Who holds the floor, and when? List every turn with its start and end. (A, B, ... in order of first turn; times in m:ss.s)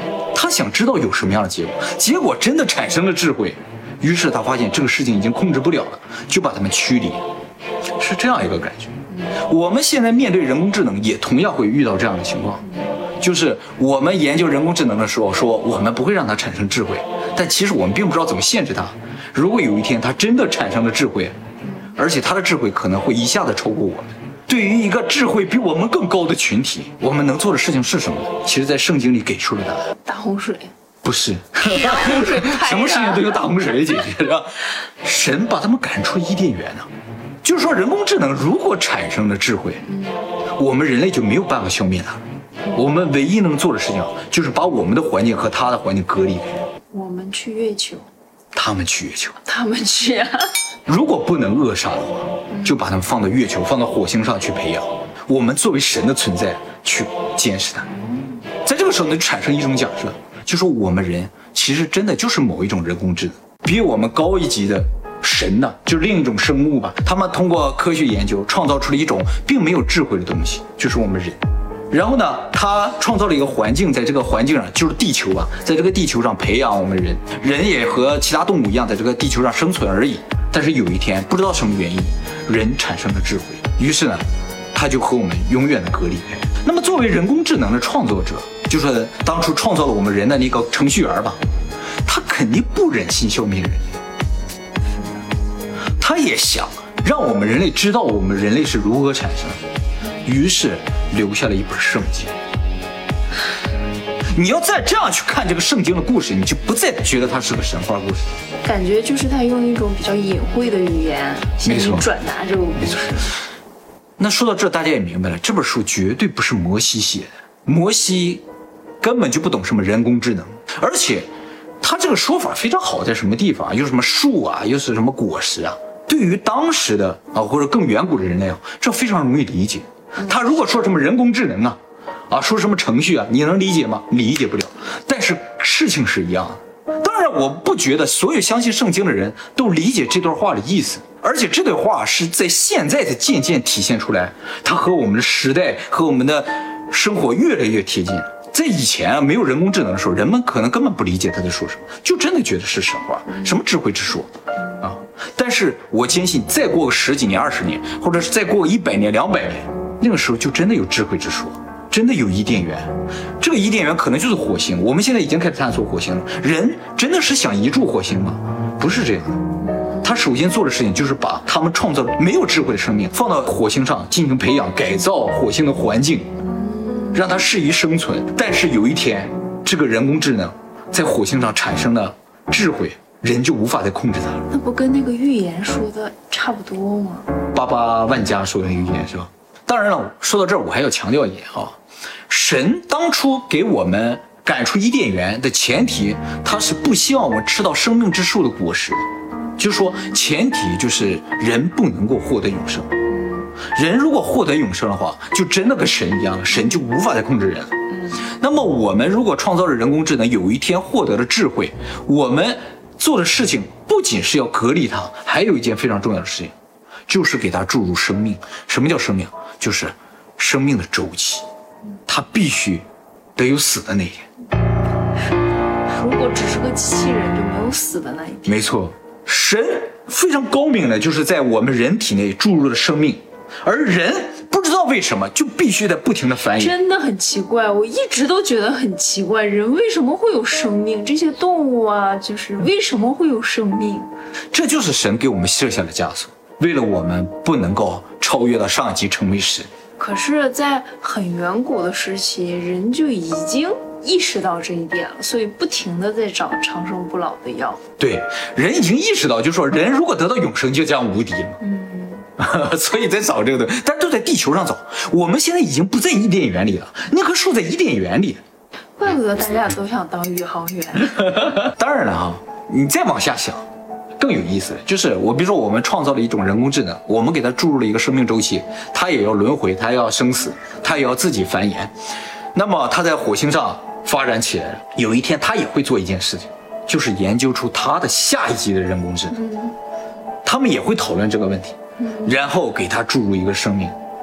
0:00.3-0:07.2 A
0:08.0-0:12.6 A
0:13.2-0:21.4 A
0:21.9-0:29.9 A
0:30.0-0:30.7 B
0:31.0-0:36.9 A
0:31.6-0:33.8 B
0:37.4-0:39.8 A
0:39.8-0:40.3 B
0:40.6-0:42.2 A
0:42.7-0:46.6 A
0:46.9-0:48.1 B
0:48.5-0:49.4 A
0:49.4-0:50.6 B
0:50.8-0:57.9 A
0:52.5-0:52.8 B
0:57.9-0:58.4 B
0:58.6-1:11.4 A
1:11.9-1:31.4 A
1:32.1-1:34.0 A
1:36.0-1:39.6 A
1:40.2-1:42.4 A
1:44.3-1:48.3 A
1:48.6-1:53.3 B
1:51.6-1:52.1 A
1:52.8-1:53.3 A
1:54.2-1:58.4 A
1:59.0-2:01.3 A
2:01.8-2:11.8 A
2:12.3-2:49.4 A
2:50.0-2:56.3 A
2:56.4-2:57.4 B
2:57.1-3:04.5 A
3:04.5-3:07.3 B
3:07.5-3:11.8 A
3:12.3-3:19.0 A
3:19.6-3:22.9 A
3:23.1-3:23.5 B
3:23.7-3:36.5 A
3:37.1-3:41.4 A
3:42.1-3:42.8 A
3:43.4-3:44.2 A
3:45.9-3:48.6 B
3:48.4-3:56.7 A
3:56.5-4:04.1 B
4:04.5-4:09.7 A
4:10.0-4:17.8 B
4:18.0-4:21.6 A
4:21.6-4:22.3 B
4:22.4-4:28.4 A
4:29.0-4:31.5 B
4:31.2-4:33.6 A
4:34.2-4:41.9 A
4:42.5-4:49.4 A
4:49.3-4:49.8 B
4:50.4-4:54.0 A
4:52.0-4:52.3 B